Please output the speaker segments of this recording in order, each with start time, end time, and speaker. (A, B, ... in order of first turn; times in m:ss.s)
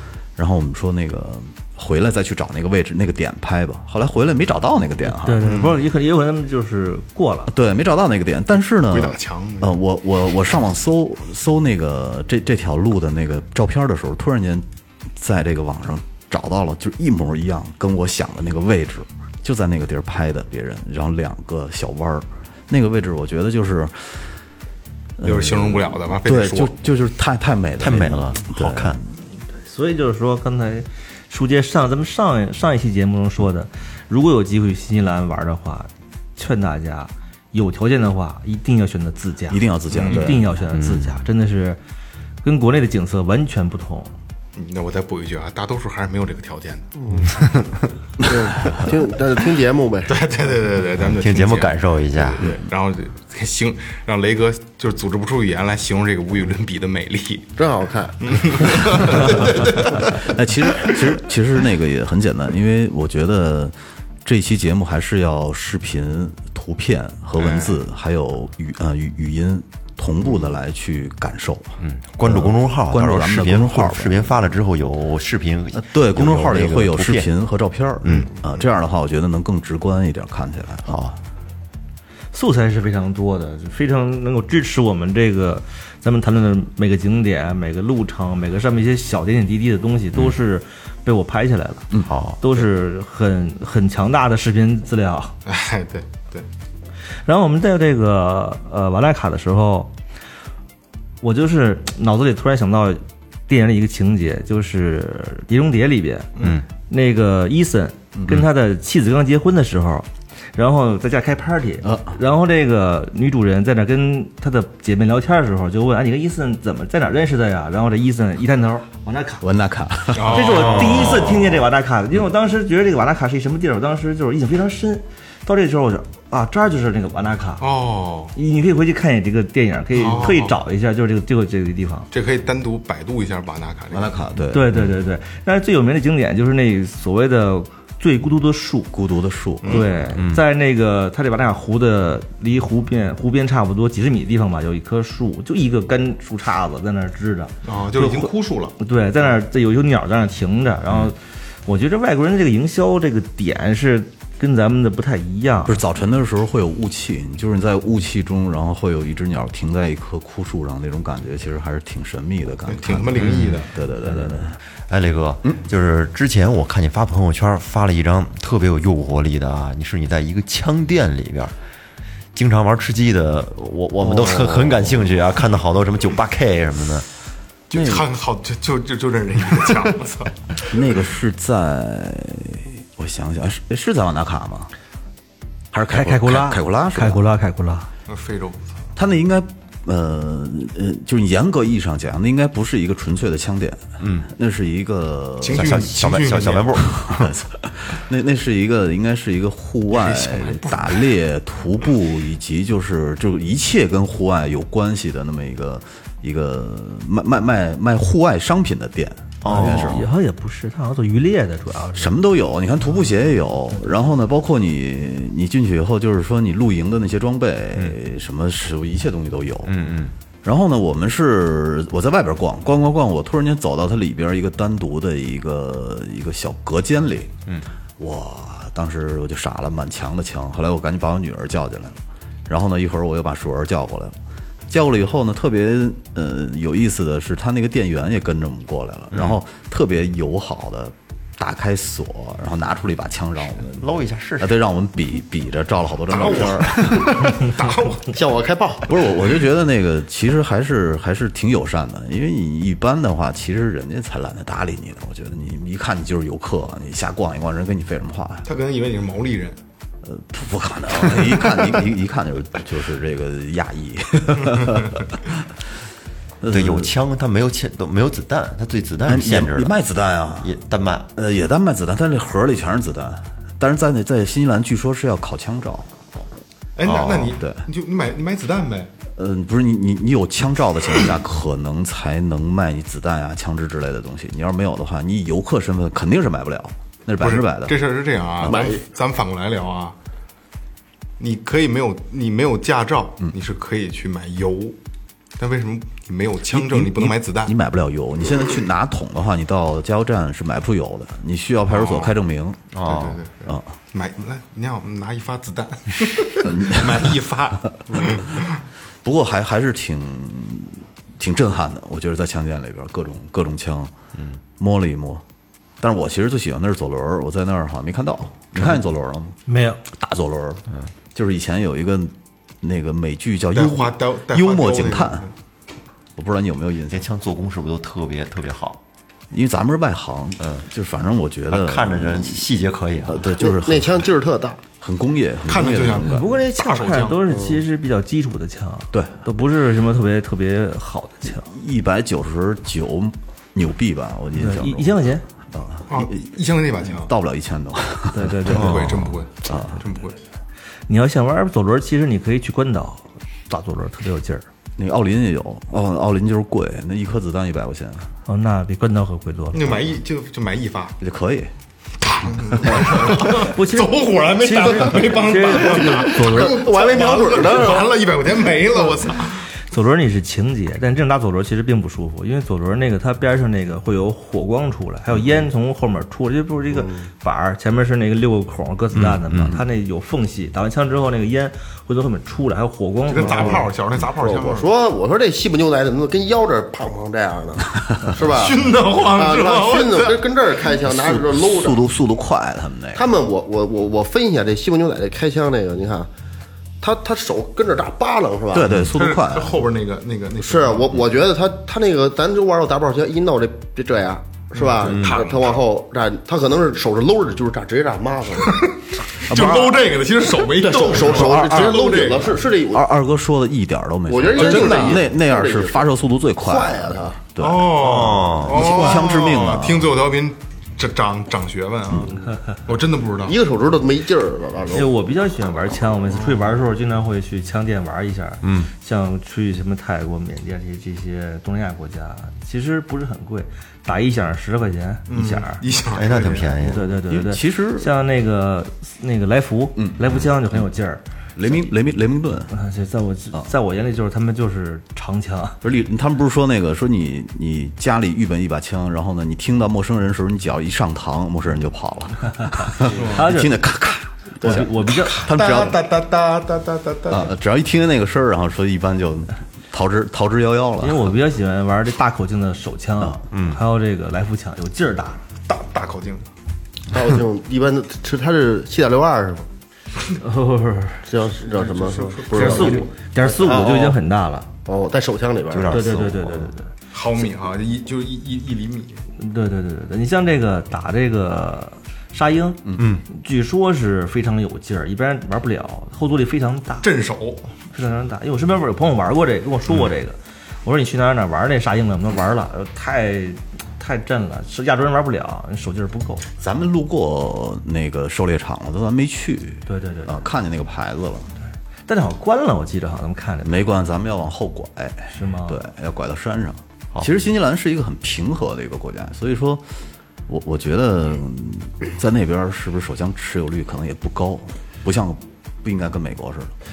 0:00.4-0:05.6 A
0:05.2-0:07.5 B
0:05.4-0:05.8 C
0:07.5-0:24.2 A
0:08.9-0:09.8 C
0:25.2-0:29.1 A
0:25.2-0:26.7 C
0:27.8-0:29.0 D
0:29.6-0:41.8 B
0:39.5-0:40.5 A
0:39.9-0:40.4 C
0:40.7-0:41.1 D
0:42.4-0:44.1 B
0:44.6-0:46.9 C
0:47.0-0:47.4 E
0:47.3-0:47.6 D
0:48.2-0:50.2 E
0:50.1-0:57.5 C
0:51.0-0:52.5 D
0:57.6-0:58.3 E
0:58.2-1:00.2 C
0:59.6-1:14.3 A
1:07.4-1:07.8 C
1:11.8-1:17.3 D
1:15.7-1:21.0 A
1:18.0-1:18.3 D
1:20.9-1:21.2 D
1:22.3-1:31.9 B
1:32.0-1:32.4 D
1:32.4-1:35.3 B
1:35.4-1:36.4 C
1:37.2-1:39.9 B
1:41.2-1:46.4 B
1:46.4-1:46.6 C
1:46.4-1:46.6 D
1:46.9-1:59.4 B
1:48.2-1:48.4 A
1:51.8-1:52.2 A
1:59.4-2:01.2 A
2:00.1-2:00.9 C
2:00.3-2:07.6 B
2:00.5-2:01.4 D
2:07.6-2:08.3 C
2:08.3-2:12.1 B
2:09.9-2:10.6 C
2:12.1-2:14.1 C
2:13.9-2:14.8 A
2:14.5-2:18.9 B
2:18.9-2:19.9 A
2:19.6-2:19.9 C
2:19.6-2:35.8 B
2:20.2-2:20.4 D
2:27.6-2:28.8 C
2:35.6-2:44.6 A
2:42.7-2:43.7 C
2:43.2-2:43.6 D
2:44.0-2:44.3 B
2:44.9-2:51.5 D
2:52.3-2:57.1 D
2:54.0-2:55.1 A
2:57.7-3:00.7 C
2:57.7-2:58.0 A
3:00.7-3:04.7 A
3:05.7-3:07.3 A
3:05.9-3:07.9 B
3:08.1-3:08.8 C
3:09.0-3:15.9 A
3:14.0-3:14.3 D
3:15.4-3:16.8 C
3:15.5-3:17.2 D
3:17.0-3:30.1 A
3:19.9-3:21.0 C
3:29.4-3:30.0 D
3:29.4-3:32.2 B
3:31.9-3:39.8 A
3:39.6-3:40.1 D
3:40.4-3:47.4 A
3:48.0-3:54.2 A
3:54.7-4:07.2 A
3:59.1-3:59.4 D
4:03.8-4:04.6 D
4:06.1-4:08.2 C
4:08.1-4:09.0 E
4:08.9-4:18.5 A
4:18.4-4:19.6 C
4:20.0-4:25.5 A
4:26.4-4:27.0 A
4:26.5-4:29.7 D
4:29.0-4:30.6 A
4:30.4-4:31.1 D
4:31.1-4:35.9 A
4:36.8-4:38.9 C
4:36.8-4:37.6 A
4:39.1-4:47.8 A
4:47.2-4:50.0 C
4:48.4-4:48.7 A
4:48.4-4:48.8 E
4:51.2-4:54.8 C
4:55.4-4:57.5 C
4:56.5-5:02.6 A
5:01.7-5:02.1 C
5:02.7-5:03.2 D
5:02.8-5:08.6 C
5:06.4-5:07.1 A
5:09.0-5:13.9 A
5:14.6-5:15.2 A
5:15.8-5:20.6 A
5:19.5-5:19.8 B
5:21.1-5:25.3 A
5:23.5-5:25.3 C
5:26.2-5:27.1 A
5:26.9-5:28.8 D
5:29.3-5:32.4 A
5:30.4-5:30.6 D
5:31.5-5:33.2 D
5:33.0-5:34.1 A
5:33.4-5:34.6 E
5:34.8-5:36.2 A
5:35.5-5:37.2 C
5:36.0-5:41.5 B
5:37.3-5:37.6 E
5:41.3-5:46.3 A
5:44.4-5:45.2 B
5:45.9-5:47.1 C
5:46.8-5:49.8 A
5:48.1-5:48.8 B
5:48.5-5:50.2 C
5:48.5-5:49.0 D
5:50.9-5:54.4 B
5:54.8-5:58.1 A
5:58.3-5:59.8 B
5:59.5-6:01.0 C
6:01.0-6:01.5 A
6:02.0-6:09.5 C
6:02.6-6:03.4 A
6:03.2-6:06.6 B
6:06.2-6:08.1 E
6:09.6-6:23.6 B
6:16.7-6:17.1 E
6:18.9-6:19.6 D
6:23.1-6:24.7 C
6:23.2-6:31.8 E
6:28.2-6:30.3 C
6:30.8-6:33.1 A
6:32.9-6:36.1 E
6:36.8-6:38.8 E
6:38.5-6:39.6 A
6:38.9-6:41.0 C
6:40.4-6:48.7 E
6:44.5-6:45.6 C
6:44.8-6:45.2 D
6:48.4-6:52.4 C
6:49.3-6:49.9 A
6:50.5-6:52.9 E
6:51.0-6:59.9 A
6:54.1-6:55.9 E
6:54.3-6:55.0 C
6:56.4-6:57.2 E
6:57.4-7:03.4 C
6:57.8-6:58.7 D
7:03.2-7:04.9 E
7:04.7-7:15.6 B
7:08.4-7:08.7 D
7:15.1-7:16.7 C
7:15.9-7:16.8 D
7:16.6-7:21.0 B
7:17.0-7:17.9 A
7:19.8-7:20.2 A
7:21.4-7:22.5 A
7:22.5-7:25.6 B
7:25.6-7:35.8 A
7:32.9-7:33.3 C
7:33.0-7:33.5 B
7:34.4-7:35.2 B
7:35.0-7:37.3 C
7:37.1-7:41.1 A
7:40.8-7:45.2 B
7:43.3-7:43.6 D
7:45.5-7:46.3 C
7:46.9-7:49.5 E
7:50.2-7:51.1 B
7:51.0-7:53.7 E
7:51.4-7:52.9 C
7:52.3-7:54.5 B
7:53.4-7:53.9 D
7:54.6-7:55.8 E
7:55.5-7:56.5 D
7:55.7-7:56.7 B
7:56.9-7:59.0 C
7:59.2-8:06.9 B
8:02.8-8:03.0 D
8:06.8-8:07.4 C
8:07.7-8:16.2 B
8:16.4-8:21.3 A
8:19.7-8:20.2 B
8:21.9-8:23.6 B
8:23.4-8:29.6 A
8:25.1-8:25.6 B
8:30.3-8:36.5 A